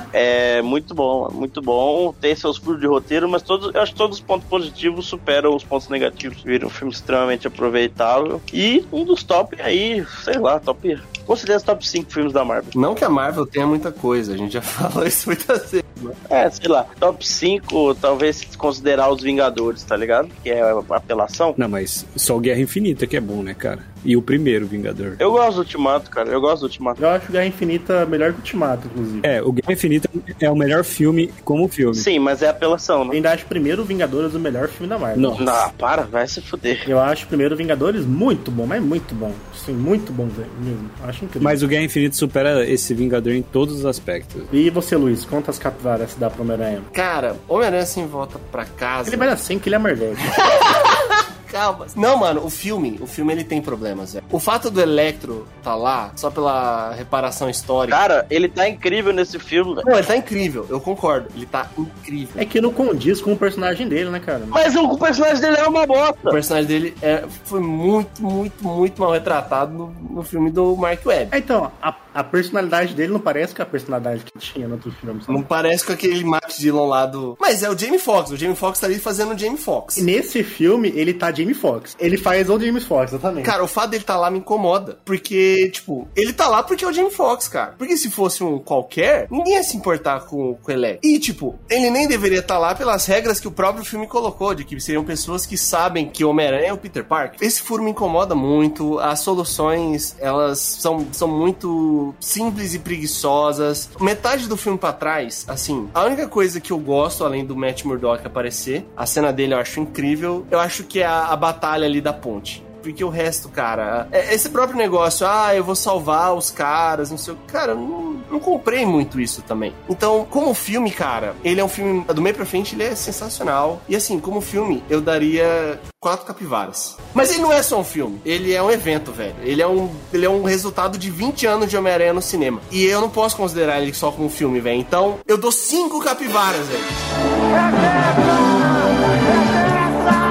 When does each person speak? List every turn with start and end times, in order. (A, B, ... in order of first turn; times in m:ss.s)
0:00.1-0:12.7 A
0:12.8-0:16.2 B
0:16.3-0:21.6 A
0:21.6-0:25.2 C
0:25.2-0:27.0 A
0:27.0-0:29.3 D
0:29.2-0:32.1 C
0:31.9-0:33.2 A
0:33.1-0:35.6 D
0:35.2-0:35.5 C
0:35.4-0:36.9 A
0:36.9-0:41.6 D
0:41.4-0:44.5 C
0:44.5-0:46.9 D
0:46.9-0:49.3 B
0:49.0-0:50.4 D
0:50.2-0:58.0 B
0:57.9-0:59.9 A
0:59.8-1:02.4 B
1:02.4-1:04.6 D
1:04.5-1:06.4 A
1:06.3-1:11.4 B
1:11.3-1:15.4 D
1:15.3-1:20.1 B
1:20.0-1:23.6 D
1:23.4-2:17.0 B